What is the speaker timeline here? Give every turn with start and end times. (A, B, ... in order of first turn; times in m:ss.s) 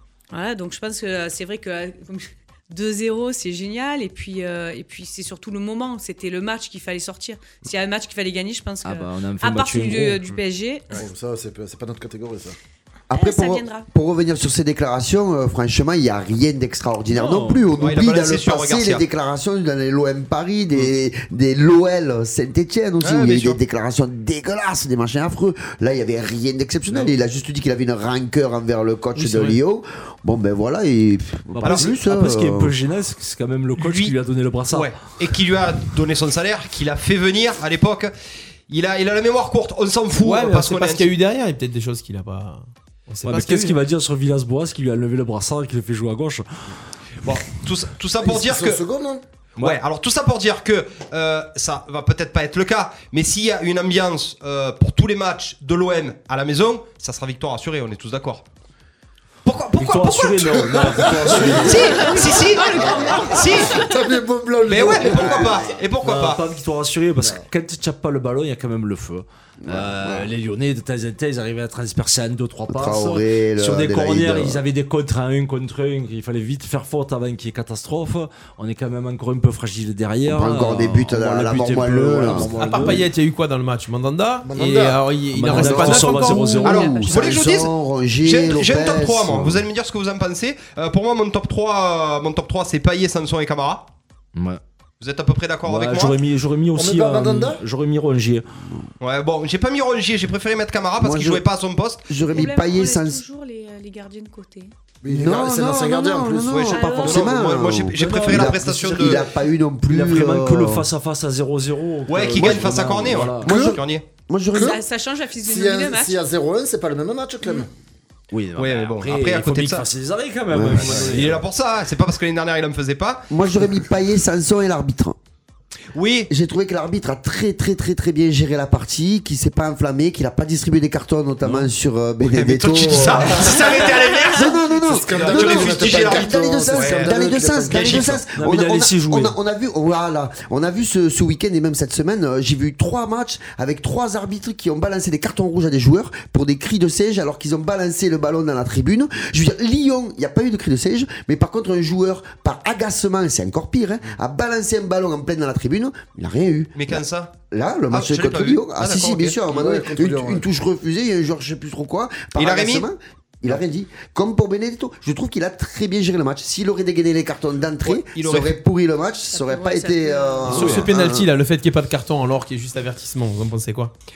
0:00.3-0:11.0 A
0:08.8-0:10.3 B
0:10.9-0:12.6 C
0:13.1-0:32.7 D
0:13.1-0:13.8 A
0:17.1-0:17.6 B
0:17.8-0:19.0 E
0:23.0-0:23.6 E
0:29.1-0:29.6 F
0:31.5-0:34.9 B
0:31.6-0:31.9 E
0:33.8-0:34.1 E
0:34.7-0:38.1 E
0:38.7-0:41.1 E
0:40.2-0:43.8 F
0:43.2-0:46.4 B
0:47.2-0:48.8 E
0:48.2-0:49.2 C
0:49.6-0:58.4 E
0:59.4-1:03.8 E
0:59.8-1:02.2 B
1:00.7-1:05.6 C
1:01.0-1:03.6 D
1:04.7-1:06.4 E
1:05.1-1:05.7 D
1:06.0-1:23.0 B
1:09.6-1:10.3 D
1:12.7-1:14.6 D
1:20.3-1:23.1 D
1:22.4-1:26.7 F
1:24.4-1:26.1 C
1:25.3-1:26.9 B
1:25.6-1:29.7 D
1:26.6-1:33.9 E
1:26.7-1:27.1 A
1:34.3-1:34.6 B
1:35.0-1:36.2 E
1:35.6-1:38.5 B
1:36.7-1:37.6 C
1:39.0-1:42.1 E
1:41.0-1:41.4 D
1:42.1-1:43.2 D
1:42.3-1:44.7 A
1:45.0-1:46.6 C
1:45.1-1:50.9 D
1:46.4-1:49.2 E
1:46.7-1:47.3 A
1:47.9-1:49.2 B
1:49.9-1:53.5 B
1:52.1-1:54.0 E
1:53.4-1:54.8 D
1:53.4-1:53.8 C
1:54.5-1:54.8 C
1:54.6-1:56.2 A
1:55.4-1:57.7 C
1:58.3-2:01.4 B
1:58.6-1:59.8 E
2:00.5-2:01.2 D
2:00.7-2:03.3 E
2:03.3-2:05.2 D
2:05.9-2:06.3 E
2:06.3-2:51.3 D
2:12.3-2:14.6 E
2:13.2-2:18.1 C
2:15.1-2:17.1 E
2:17.7-2:18.2 E
2:18.3-2:19.4 B
2:36.7-2:37.3 E
2:37.9-2:39.4 E
2:39.4-2:40.5 C
2:42.4-2:42.9 E
2:47.8-2:48.6 E
2:49.3-2:50.6 A
2:50.4-2:53.9 F